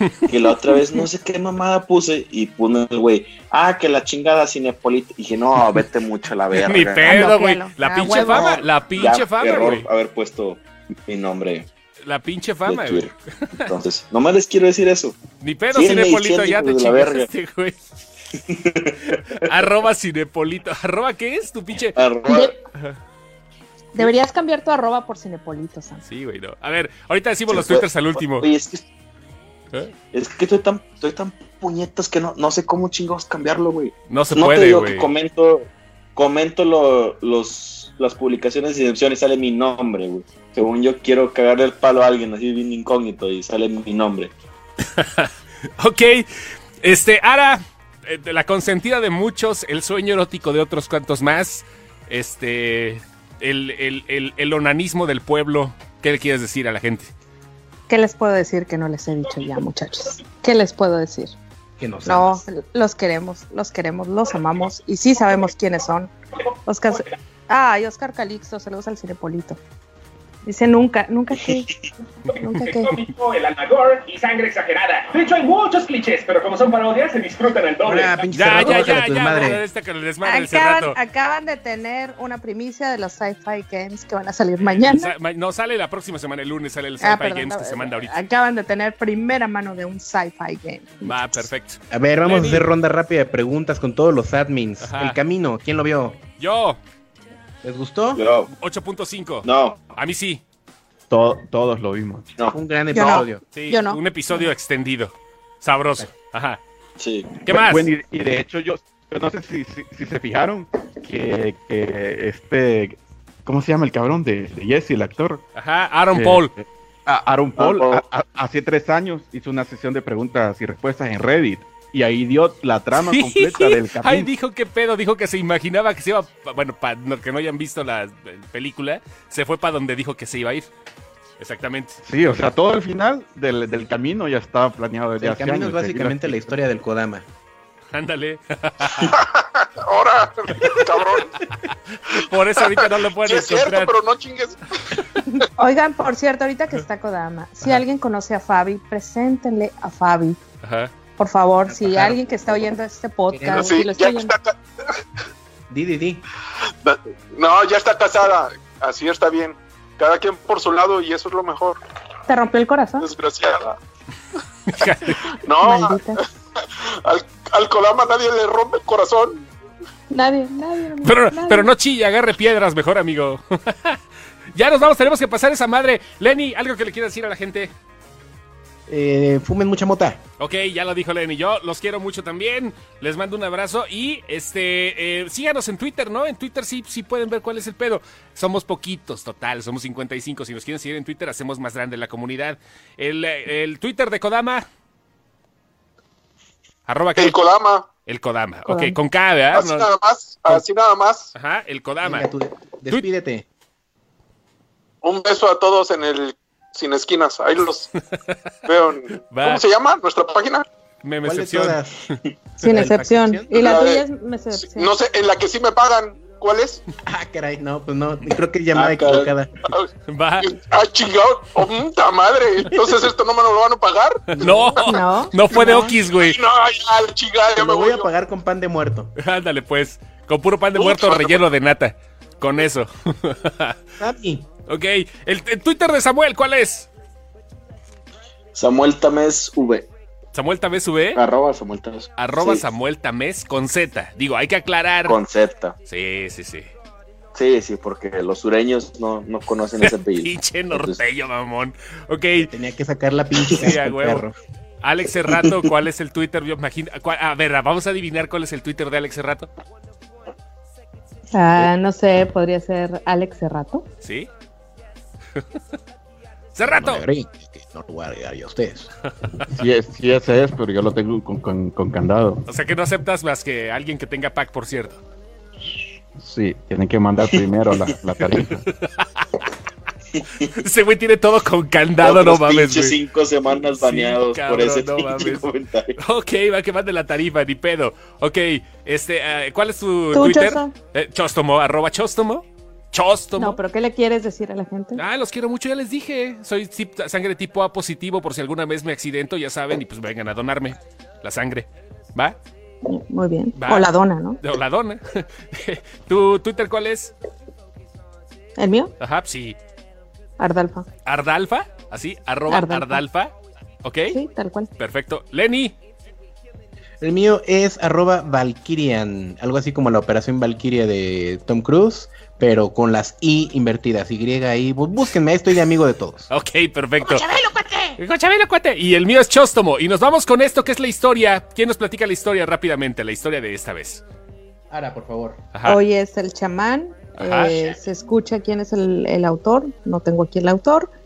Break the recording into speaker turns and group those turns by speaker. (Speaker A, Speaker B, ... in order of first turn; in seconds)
Speaker A: 0.3-7.3, 8.1-11.7, 12.7-15.2, 15.7-17.3, 18.5-19.5, 21.9-22.6, 27.5-28.9, 30.1-44.3, 98.2-98.5, 99.4-99.8, 107.0-107.3, 117.6-118.0, 218.7-219.3, 238.6-239.9, 241.2-242.7, 245.1-245.8, 247.3-251.0, 280.2-280.5, 282.0-285.9
Speaker B: 6.5-9.9, 12.1-13.7, 15.4-17.8, 19.2-22.0, 26.1-28.5, 34.1-35.1, 44.9-46.3, 46.8-57.1, 78.3-81.0, 84.6-88.2, 91.0-92.7, 94.8-95.2, 96.4-96.8, 98.6-100.4, 103.5-106.6, 107.5-107.9, 115.6-116.5, 123.0-130.7, 131.4-132.0, 137.9-139.2, 141.6-143.9, 150.6-150.9, 164.7-165.3, 171.0-174.0, 174.6-177.7, 180.4-194.7, 196.9-197.4, 198.1-199.9, 201.3-202.3, 209.3-209.6, 211.0-211.8, 220.1-220.6, 224.3-226.4, 229.2-233.8, 234.7-236.9, 240.3-241.2, 242.2-245.2, 245.9-246.7, 249.8-252.5, 253.5-254.2, 254.8-259.5, 264.0-264.3, 266.6-267.0, 272.5-275.0, 278.7-279.2, 280.4-283.0, 283.8-285.4, 286.0-293.6, 295.0-302.4, 303.6-303.9, 304.4-307.1, 309.0-309.6, 311.1-313.3, 313.8-314.2, 314.8-315.7, 326.3-327.2, 328.0-334.0, 337.2-337.7
Speaker C: 7.0-8.6, 22.3-22.6, 23.9-26.0, 57.9-61.4, 62.1-66.1, 66.7-69.6, 70.5-71.7, 72.3-73.0, 80.2-85.1, 87.0-91.5, 102.9-104.4, 145.3-150.4, 151.2-154.3, 162.3-163.1, 165.6-166.2, 170.1-171.7, 198.7-199.0, 212.6-214.9, 224.8-225.9, 261.3-263.9, 290.1-290.8, 293.4-295.0, 302.9-304.4, 308.6-308.9, 310.4-310.9, 312.5-313.0, 314.1-314.7, 327.0-328.0, 335.6-340.9
Speaker D: 61.8-62.5, 77.8-79.6, 91.9-96.2, 97.6-98.2, 102.5-103.4, 135.2-137.3, 151.7-152.6, 153.3-153.8, 155.7-156.2, 178.9-180.2, 202.0-203.5, 211.2-212.0, 212.6-213.8, 217.0-219.5, 227.6-229.1, 234.0-234.5, 252.3-254.4, 266.6-268.9, 317.0-326.3, 334.7-335.4
Speaker E: 66.9-67.2, 72.3-78.9
Speaker F: 101.1-102.3, 107.5-115.4, 116.1-124.3, 132.1-136.4, 269.5-272.4, 276.2-278.6
Speaker G: 138.9-141.4, 142.6-145.0, 153.5-155.0, 156.8-161.8, 163.0-163.8, 164.8-166.0, 166.6-169.5, 197.2-197.9, 199.5-201.3, 205.0-207.9, 208.7-210.7, 213.6-214.0, 214.6-216.8, 220.4-225.0, 225.6-228.1, 230.8-231.4